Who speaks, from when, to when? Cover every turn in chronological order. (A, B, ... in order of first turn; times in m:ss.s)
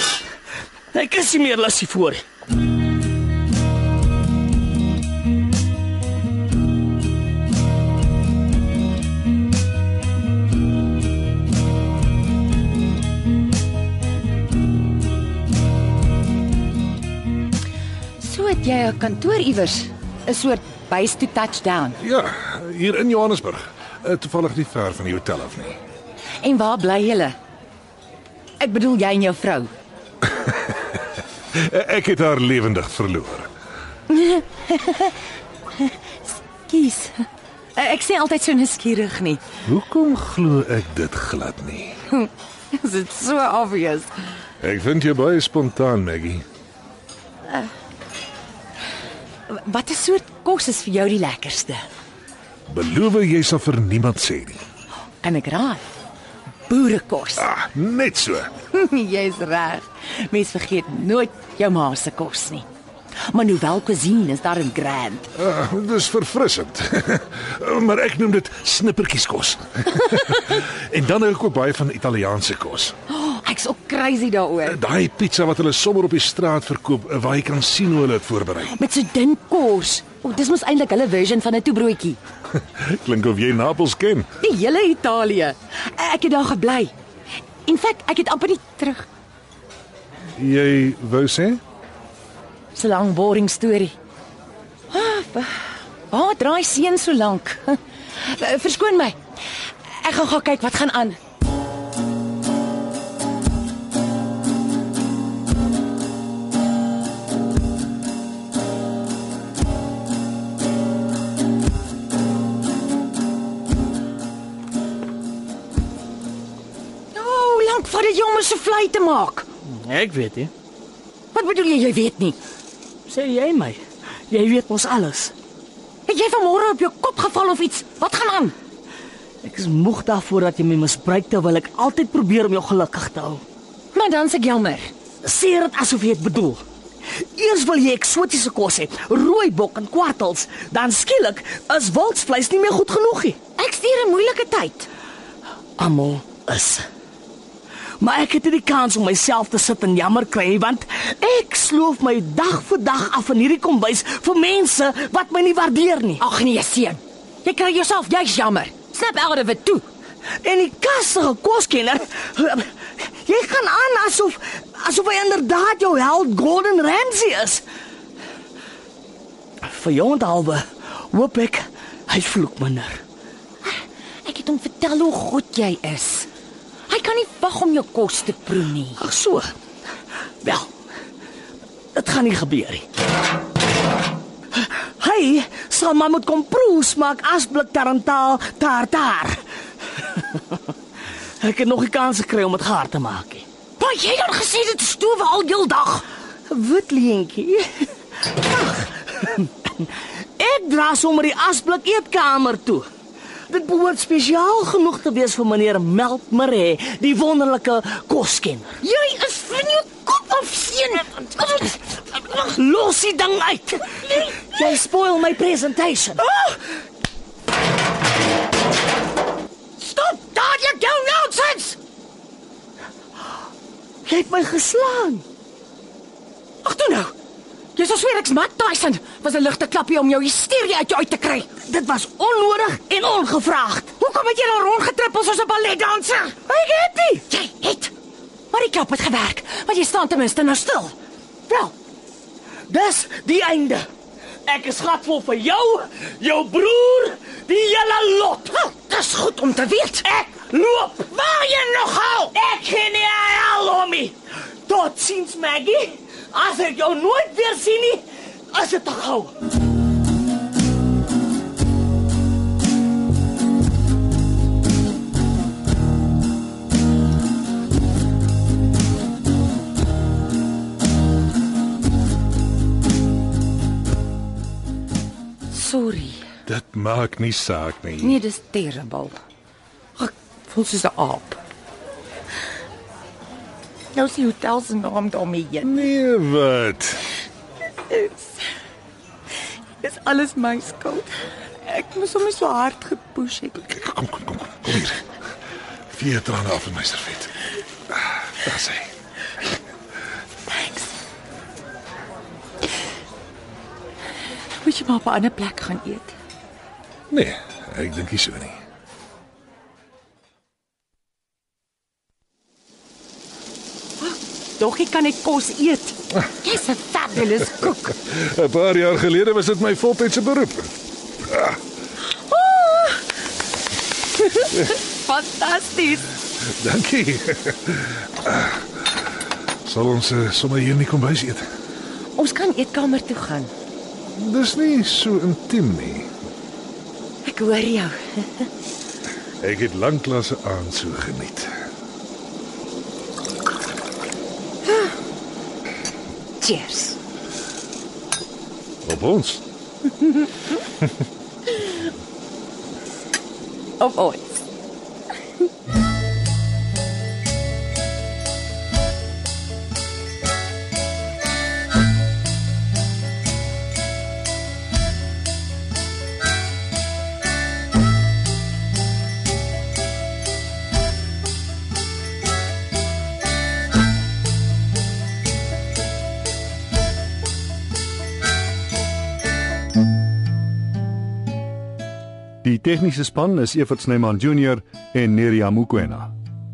0:00.9-0:02.2 A
0:18.2-0:22.0 B
0:22.0-0:25.8 C
0:26.4-0:27.4 B
0:28.6-0:29.7 B
0:31.5-0:33.5 C
0:34.1-0:35.2 B
0:36.7-0:39.4 B
0:39.7-0:42.0 C
0:42.1-0:44.1 B
0:44.6-0:46.4 C
0:49.5-0:51.8 B
0:52.7-0:54.6 C
0:55.2-0:55.8 B
0:56.7-0:57.5 B
0:57.4-0:58.5 C
0:58.7-1:02.6 B
1:03.3-1:05.3 B
1:05.4-1:12.9 C
1:13.1-1:14.8 B
1:14.7-1:18.7 C
1:18.7-1:22.2 B
1:22.6-1:24.3 C
1:24.4-1:26.9 B
1:27.7-1:29.1 B
1:30.4-1:31.6 C
1:32.8-1:33.9 B
1:34.9-1:39.2 B
1:39.9-1:41.2 B
1:57.1-1:59.5 B
1:59.7-2:00.5 A
2:01.3-2:02.4 B
2:03.1-2:05.3 A
2:06.1-2:08.6 B
2:09.4-2:13.4 A
2:13.9-2:14.9 B
2:15.2-2:16.6 A
2:17.4-2:23.4 A
2:23.6-2:24.9 B
2:25.8-2:26.9 A
2:28.0-2:36.2 A
2:36.2-2:39.8 B
2:40.4-2:47.6 A
2:49.6-2:53.0 A
2:53.6-2:56.3 B
2:56.9-2:59.0 B
2:59.0-2:59.5 A
3:00.4-3:00.7 A
3:02.0-3:02.8 A
3:04.6-3:09.4 A
3:10.0-3:10.6 A
3:11.4-3:13.4 A
3:13.8-3:16.0 B
3:16.5-3:22.9 A
3:23.5-3:28.8 A
3:28.8-3:31.8 B
3:32.1-3:36.2 A
3:36.3-3:36.6 B
3:39.8-3:41.8 B
3:44.1-3:45.2 A
3:46.6-3:47.1 B
3:47.8-3:51.5 B
3:51.6-3:53.9 A
3:54.0-3:57.9 B
3:58.5-4:01.0 B
4:02.7-4:03.9 A
4:04.5-4:08.7 A
4:08.7-4:10.1 B
4:10.0-4:11.3 A
4:11.1-4:12.3 B
4:12.3-4:19.3 A
4:35.5-4:36.2 B
4:36.5-4:38.2 C
4:38.0-4:39.2 B
4:40.0-4:41.4 B
4:43.9-4:45.7 B
4:45.6-4:47.1 C
4:47.9-4:48.3 B
4:49.8-4:51.1 B
4:51.6-4:53.6 B
4:53.6-4:55.0 C
4:55.9-4:57.4 C
4:57.9-4:58.9 C
5:00.5-5:00.9 B
5:04.6-5:06.2 B
5:07.1-5:08.6 C
5:14.1-5:18.0 B
5:18.0-5:20.7 C
5:21.3-5:21.6 C
5:22.3-5:23.1 B
5:24.2-5:26.1 B
5:26.5-5:29.0 C
5:29.6-5:31.5 C
5:32.2-5:33.5 B
5:34.1-5:36.1 C
5:37.2-5:38.5 B
5:39.4-5:41.5 C
5:46.4-5:47.0 B
5:48.8-5:49.4 C
5:53.8-5:54.2 B
6:22.4-6:26.1 D